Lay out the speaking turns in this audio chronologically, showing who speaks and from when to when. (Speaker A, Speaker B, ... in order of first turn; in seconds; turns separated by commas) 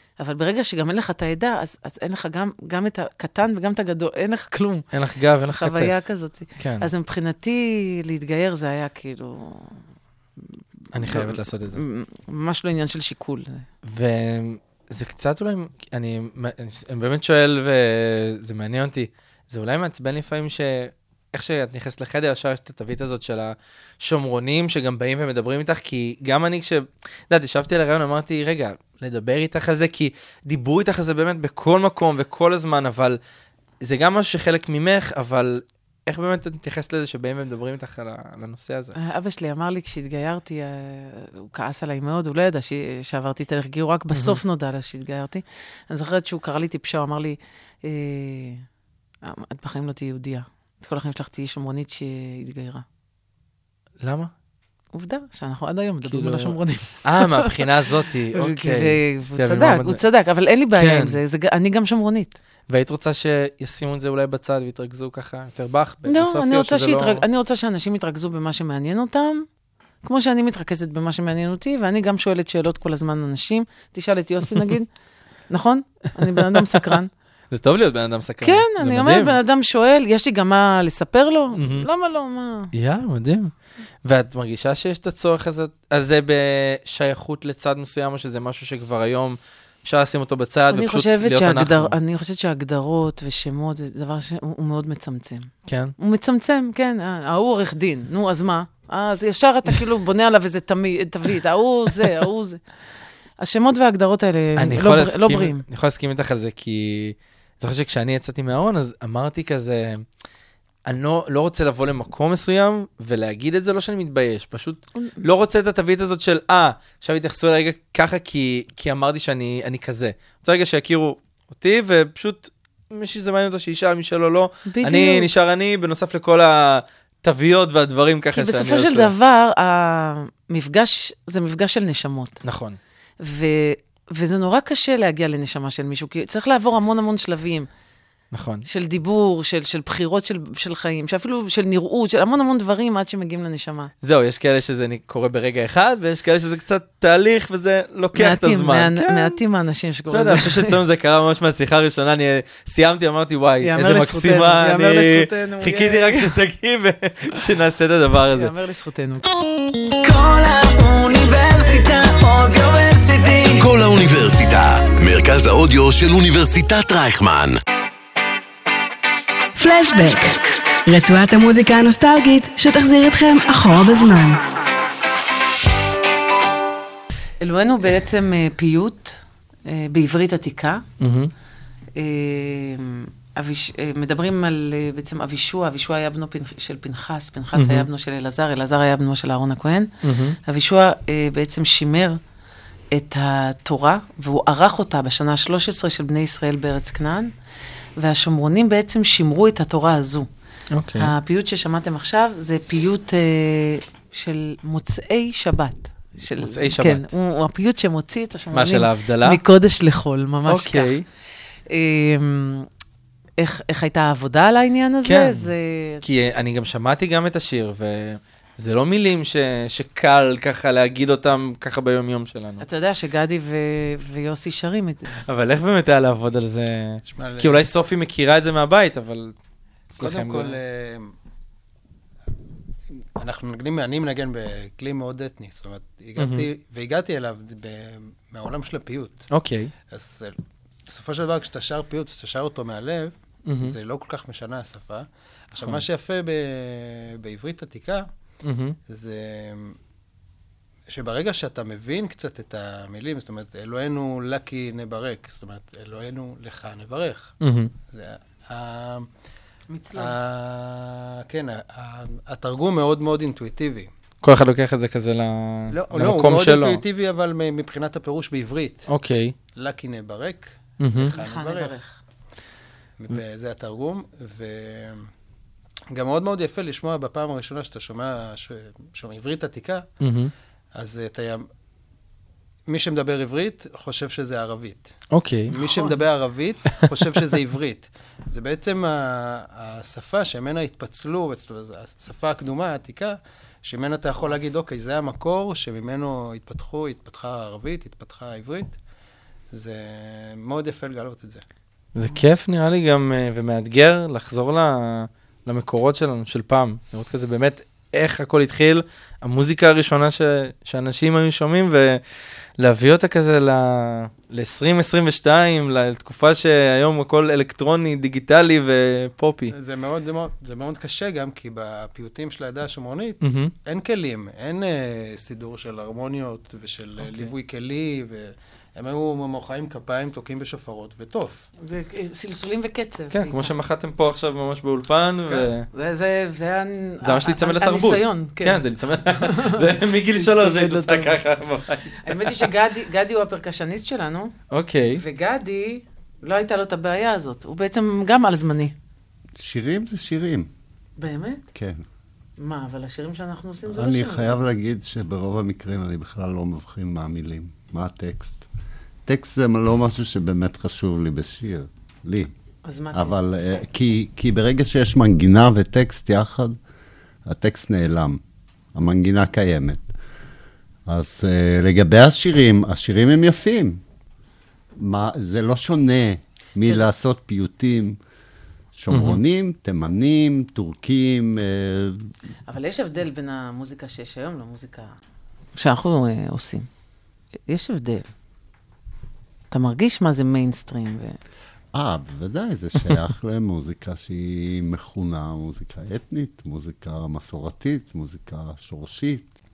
Speaker A: 0.2-4.9, Speaker B: 4.9-5.9, Speaker A: 5.5-9.8, Speaker B: 6.6-6.9, Speaker B: 10.9-11.8, Speaker A: 11.0-13.7, Speaker B: 13.8-33.2, Speaker B: 33.8-39.0, Speaker A: 39.0-48.6, Speaker B: 44.1-44.4, Speaker A: 49.2-52.8, Speaker B: 54.0-54.3, Speaker A: 54.9-57.6, Speaker B: 56.1-60.0, Speaker A: 58.3-62.4, Speaker B: 60.7-61.2, Speaker B: 62.7-67.2, Speaker A: 66.1-69.5, Speaker A: 70.0-74.9, Speaker A: 75.5-77.1, Speaker B: 76.5-76.9, Speaker B: 77.5-79.4, Speaker A: 78.4-82.7, Speaker B: 81.5-81.9, Speaker B: 82.7-83.5, Speaker B: 84.0-92.0, Speaker A: 90.7-102.6, Speaker B: 95.7-95.9, Speaker A: 103.4-105.6, Speaker B: 104.6-110.0, Speaker B: 110.9-129.1, Speaker A: 124.7-125.3, Speaker A: 128.3-132.4, Speaker B: 132.4-132.8, Speaker A: 133.2-137.7, Speaker B: 138.3-138.7, Speaker A: 138.7-143.9, Speaker B: 144.0-149.4, Speaker A: 148.2-150.8, Speaker B: 150.1-158.5, Speaker A: 153.6-156.4, Speaker A: 158.3-159.3, Speaker C: 160.0-163.6, Speaker D: 163.5-167.6, Speaker E: 169.6-174.4, Speaker A: 177.4-180.8, Speaker B: 181.0-181.3, Speaker A: 182.0-192.2, Speaker B: 187.6-187.9, Speaker B: 190.0-190.4, Speaker A: 192.9-197.3, Speaker A: 198.0-200.3, Speaker B: 200.7-201.1, Speaker A: 201.0-210.9, Speaker B: 206.4-207.1, Speaker B: 208.5-209.4, Speaker B: 210.5-211.1, Speaker A: 211.7-212.7, Speaker A: 213.4-216.0, Speaker B: 215.0-222.7, Speaker A: 222.6-225.1, Speaker B: 225.3-229.4, Speaker F: 227.1-227.7, Speaker B: 229.9-230.6, Speaker F: 230.0-231.1, Speaker F: 233.2-239.2, Speaker B: 236.2-236.5, Speaker B: 239.3-239.7, Speaker F: 239.9-248.1, Speaker B: 243.5-243.8, Speaker B: 248.4-248.8, Speaker F: 248.9-249.8, Speaker F: 250.9-257.4, Speaker B: 257.4-257.7, Speaker F: 257.9-259.1, Speaker A: 259.7-260.2, Speaker F: 259.9-263.9, Speaker B: 264.2-266.8, Speaker F: 265.7-268.9, Speaker B: 268.9-269.4, Speaker F: 269.6-271.8, Speaker B: 270.8-271.1, Speaker A: 271.0-272.0, Speaker F: 273.0-275.1, Speaker F: 275.9-279.9, Speaker B: 280.0-280.3, Speaker F: 280.8-281.5, Speaker F: 282.7-284.9, Speaker B: 285.1-285.5, Speaker F: 285.5-298.8, Speaker A: 285.6-285.9, Speaker F: 299.5-301.4, Speaker B: 301.9-312.0, Speaker B: 312.6-319.5, Speaker F: 319.5-331.5, Speaker B: 323.2-323.5, Speaker B: 327.0-327.3, Speaker A: 331.6-333.5, Speaker B: 333.1-335.7, Speaker A: 335.7-341.2, Speaker B: 337.0-342.5, Speaker A: 342.0-344.3, Speaker B: 344.5-345.0, Speaker A: 344.9-348.8, Speaker G: 349.4-350.5, Speaker A: 351.0-351.5, Speaker G: 351.5-351.8, Speaker A: 352.4-354.4, Speaker G: 353.7-358.5, Speaker G: 359.1-362.3, Speaker A: 362.6-363.2, Speaker G: 362.9-366.6, Speaker G: 367.3-368.2, Speaker G: 368.7-369.9, Speaker G: 370.9-373.8, Speaker G: 374.8-378.0, Speaker G: 378.8-382.1, Speaker B: 378.9-379.2, Speaker A: 382.5-384.9, Speaker A: 385.6-386.7, Speaker A: 387.5-388.1, Speaker A: 389.5-391.2, Speaker G: 391.7-399.3